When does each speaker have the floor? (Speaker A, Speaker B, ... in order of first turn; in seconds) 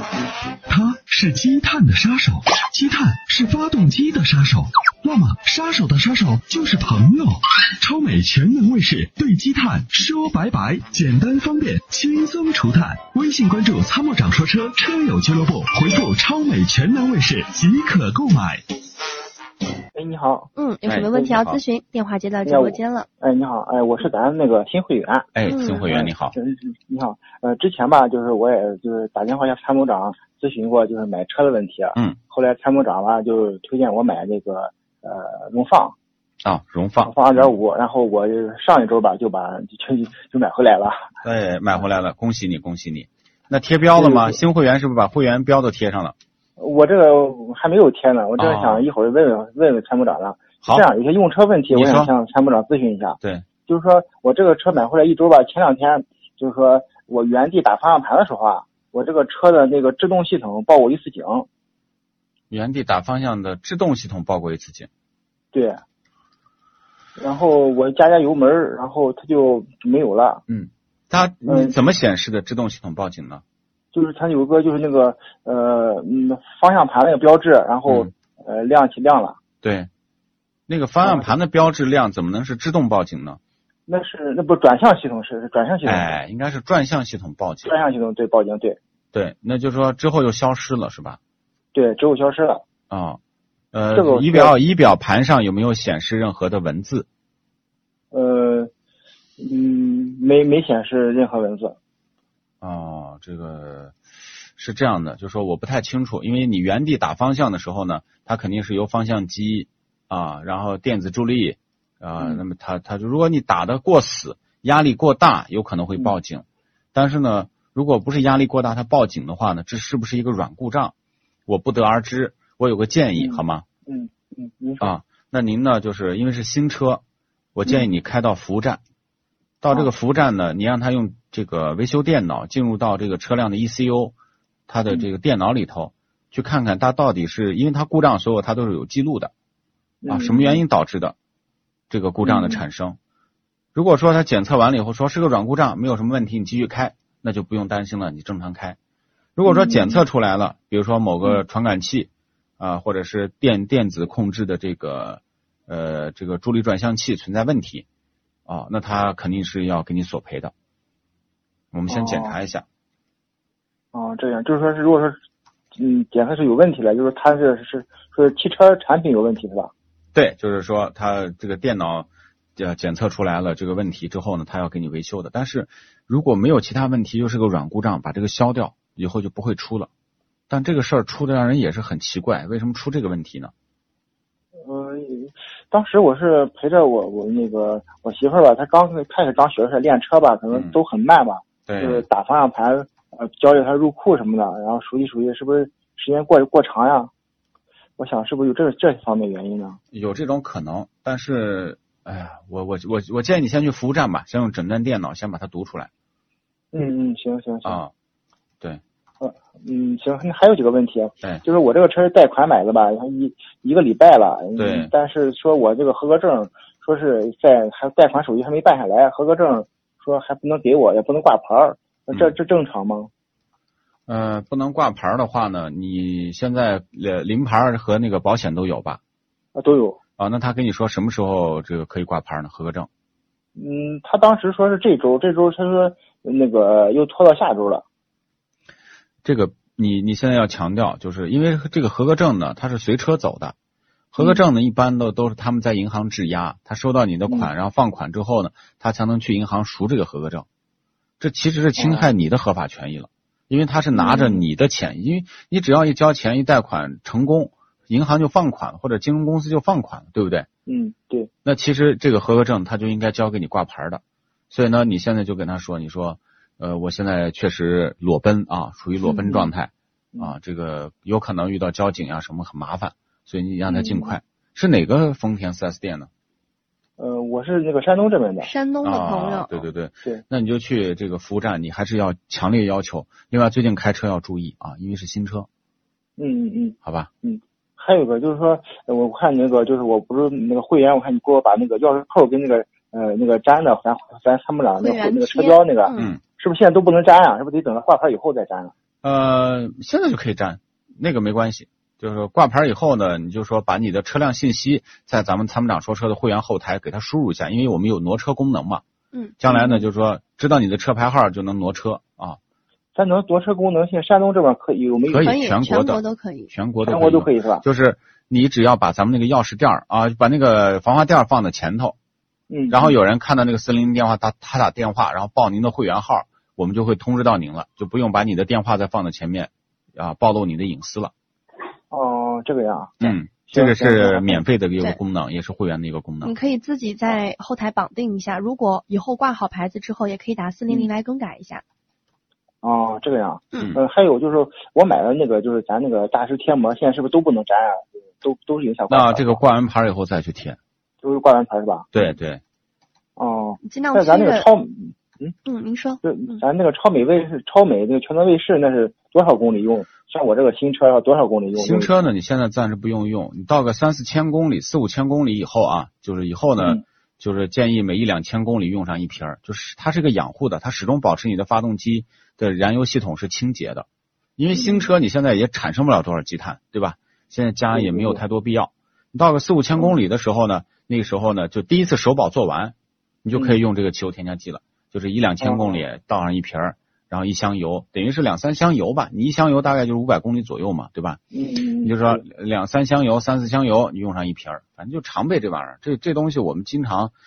Speaker A: 0.7-18.6
Speaker B: 19.9-20.5, 22.4-35.9, 37.0-41.0, 44.0-44.4, 46.6-61.5, 65.5-65.8, 67.2-70.4, 71.5-71.8, 73.9-79.4, 81.0-81.3, 83.9-86.1, 87.6-88.8, 91.7-92.6, 93.9-94.5, 98.1-98.7, 99.4-101.8, 123.2-124.9, 140.0-140.6, 142.2-142.6, 149.4-150.0, 161.9-162.3, 163.9-165.2, 165.7-169.7, 184.6-197.1, 198.0-199.8, 206.7-207.8, 209.2-223.1, 229.5-230.0, 233.6-237.8, 244.2-244.5, 251.8-252.1, 253.9-254.4, 260.6-261.3, 277.0-278.5, 286.2-298.7, 309.5-309.8, 312.9-315.4, 316.8-317.6, 322.5-322.9, 331.9-334.4, 342.6-349.4, 351.0-351.9, 353.2-355.3, 356.0-362.0, 374.5-374.9, 377.7-378.2, 385.4-385.8, 391.3-392.2
Speaker C: 20.6-23.1, 25.4-25.9, 269.1-269.5, 278.4-279.5, 294.7-296.1, 315.1-316.5, 336.2-341.6, 353.6-354.5, 355.4-356.4
Speaker D: 20.9-21.6, 25.3-26.3, 36.4-37.5, 41.2-46.1, 48.4-48.8, 51.7-52.1, 62.5-64.9, 70.5-73.4, 79.6-79.9, 80.7-83.4, 85.8-87.7, 89.1-91.2, 92.9-93.2, 93.7-97.1, 102.6-104.0, 104.5-120.9, 121.5-123.6, 124.8-127.0, 127.5-128.8, 129.6-134.1, 134.7-139.3, 140.1-141.2, 141.9-143.0, 143.7-148.8, 149.3-157.8, 158.5-160.5, 161.7-162.6, 170.1-179.9, 180.5-183.5, 191.7-192.1, 199.9-205.9, 207.6-207.9, 214.6-214.9, 224.1-229.0, 230.2-232.9, 239.2-243.5, 244.1-250.4, 251.2-260.5, 261.4-276.1, 278.8-285.5, 286.8-287.1, 299.0-308.8, 309.4-312.4, 315.1-321.9, 322.7-331.1, 333.0-336.3, 348.9-350.6, 351.9-352.4, 361.5-373.9, 374.4-391.2, 391.8-397.1